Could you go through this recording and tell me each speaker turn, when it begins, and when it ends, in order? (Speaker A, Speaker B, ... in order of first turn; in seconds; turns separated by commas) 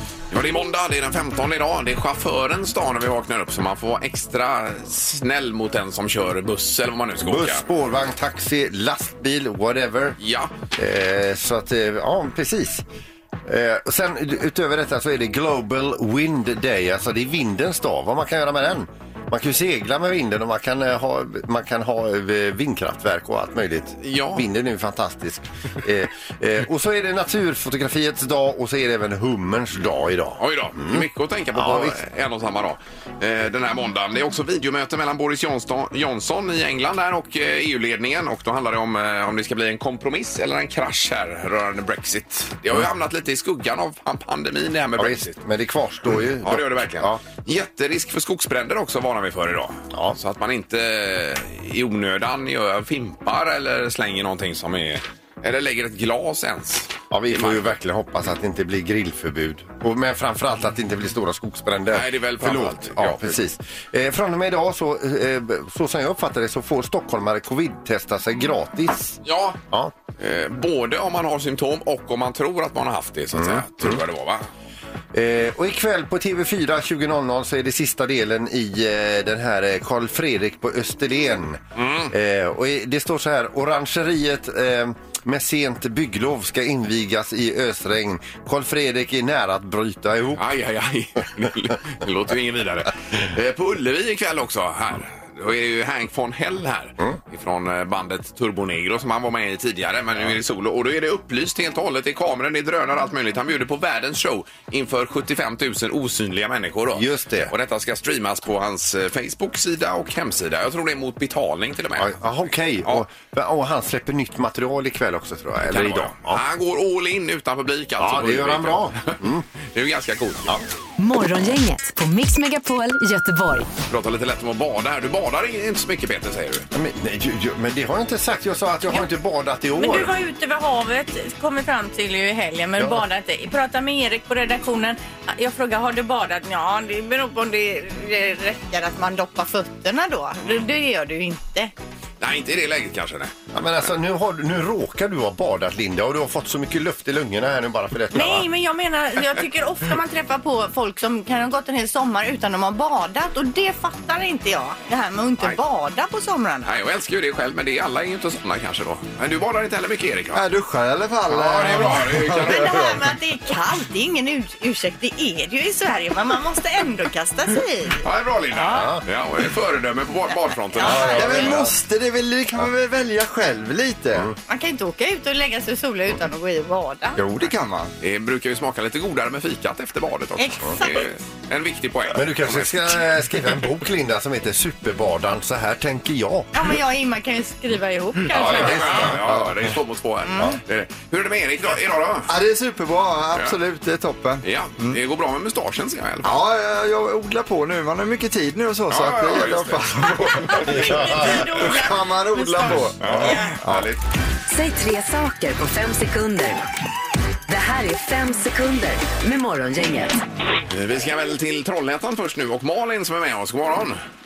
Speaker A: 0.3-7.6, Speaker B: 7.2-10.2, Speaker A: 10.2-10.5, Speaker B: 10.8-12.8, Speaker B: 13.4-32.0, Speaker A: 24.0-24.4, Speaker A: 30.4-45.3, Speaker B: 45.0-47.2, Speaker A: 46.4-57.7, Speaker B: 57.1-69.2, Speaker A: 61.9-63.4, Speaker A: 69.2-69.6, Speaker A: 70.2-74.5, Speaker B: 73.3-74.0, Speaker B: 75.1-90.5, Speaker A: 81.8-82.1, Speaker A: 90.4-112.2, Speaker B: 106.9-107.5, Speaker B: 112.0-116.4, Speaker A: 115.7-119.2, Speaker B: 118.0-119.5, Speaker A: 119.7-120.5, Speaker C: 121.0-123.7, Speaker A: 123.9-126.7, Speaker B: 126.7-130.1, Speaker D: 129.8-141.7, Speaker A: 142.2-143.3, Speaker B: 143.5-148.5, Speaker D: 148.1-156.7, Speaker A: 156.7-160.4, Speaker E: 160.3-163.0, Speaker A: 161.3-162.9, Speaker D: 162.5-168.0, Speaker A: 168.0-171.4, Speaker B: 168.6-169.1, Speaker D: 170.7-171.6, Speaker B: 170.8-171.7, Speaker E: 171.1-174.3, Speaker D: 174.5-177.2, Speaker E: 177.2-177.9, Speaker A: 178.0-183.6, Speaker D: 180.4-181.1, Speaker B: 182.1-186.5, Speaker D: 186.5-189.1, Speaker A: 188.3-192.3, Speaker B: 188.3-189.3, Speaker D: 190.2-190.6, Speaker E: 192.3-195.0, Speaker A: 194.4-196.4, Speaker E: 196.2-200.9, Speaker A: 198.9-201.1, Speaker D: 200.4-203.6, Speaker B: 200.7-201.4, Speaker E: 201.6-203.9, Speaker A: 203.0-204.0, Speaker C: 204.5-206.6, Speaker C: 207.5-210.2, Speaker A: 210.7-214.0